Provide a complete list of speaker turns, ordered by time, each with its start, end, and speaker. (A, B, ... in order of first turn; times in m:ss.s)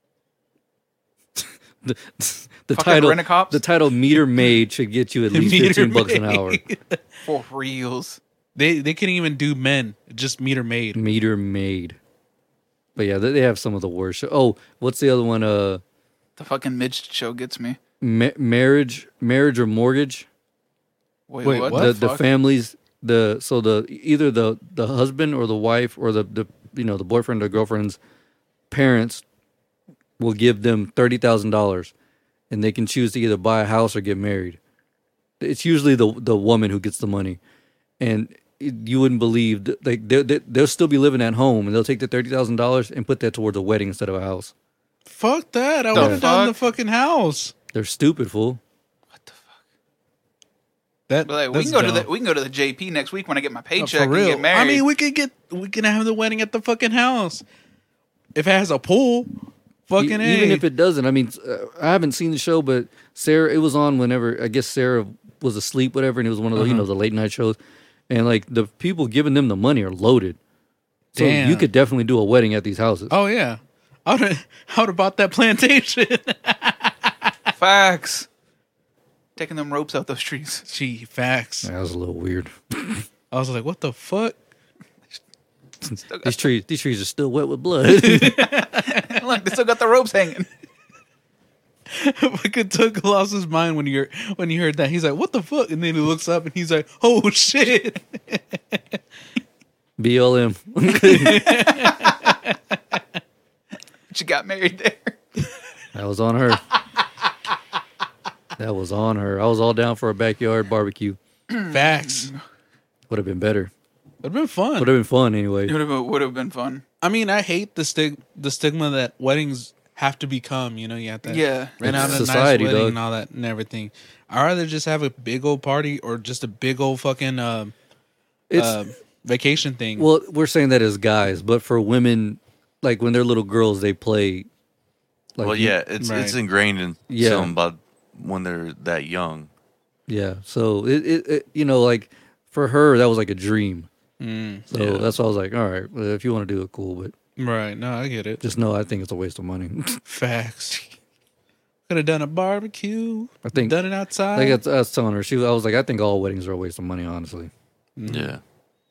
0:01.4-0:06.6 A
0:02.7-0:03.6 B
0:05.3-0:07.0 C
0:07.2-0:08.2 B
0:08.6-0:11.0 C
0:10.9-0:12.0 A
0:13.0-0:15.8 A
0:16.4-0:17.8 B
0:18.0-0:20.3 A
0:21.3-0:22.2 B
0:21.4-0:21.9 C
0:21.7-0:28.0 A
0:28.7-0:29.2 A
0:30.2-0:31.9 A
0:32.5-0:34.6 A
0:35.4-0:37.4 A
0:38.0-0:44.5 A
0:45.1-0:47.5 C
0:45.9-0:46.6 B
0:45.9-0:46.2 A
0:47.7-0:48.6 A
0:49.1-0:49.6 B
0:51.1-0:52.1 C
0:51.2-0:54.8 B
0:53.8-0:57.4 C
0:58.3-0:59.3 C
0:59.9-1:00.6 C
1:00.0-1:07.6 A
1:06.6-1:06.9 C
1:08.1-1:10.4 A
1:11.1-1:11.7 C
1:11.1-1:13.1 A
1:13.1-1:17.5 C
1:17.6-1:18.3 B
1:19.4-1:20.6 B
1:20.7-1:21.7 C
1:21.6-1:23.0 A
1:23.3-1:24.4 C
1:25.8-1:28.5 A
1:26.1-1:26.4 B
1:27.9-1:29.2 C
1:28.8-1:30.5 B
1:31.9-1:38.8 C
1:40.0-1:41.7 A
1:40.9-1:43.0 C
1:41.7-1:42.1 B
1:44.1-1:45.2 B
1:45.9-1:46.6 A
1:48.6-1:51.2 A
1:51.5-1:52.4 B
1:51.7-1:52.3 C
1:53.1-1:53.7 A
1:54.2-1:54.9 C
1:54.8-1:55.8 A
1:55.6-1:56.8 B
1:57.0-2:07.7 C
2:01.3-2:01.9 B
2:01.8-2:03.0 A
2:01.9-2:02.2 D
2:08.5-2:08.8 A
2:08.5-2:10.1 C
2:10.0-2:14.5 A
2:15.4-2:15.7 A
2:15.4-2:19.5 D
2:16.0-2:16.4 C
2:17.1-2:17.5 A
2:20.1-2:23.9 A
2:24.2-2:24.6 C
2:24.7-2:27.1 A
2:24.7-2:25.1 D
2:27.4-2:28.4 C
2:28.4-2:30.0 A
2:30.0-2:30.8 C
2:31.9-2:34.6 C
2:33.4-2:33.8 A
2:34.3-2:37.5 A
2:38.0-2:38.3 C
2:38.1-2:38.4 D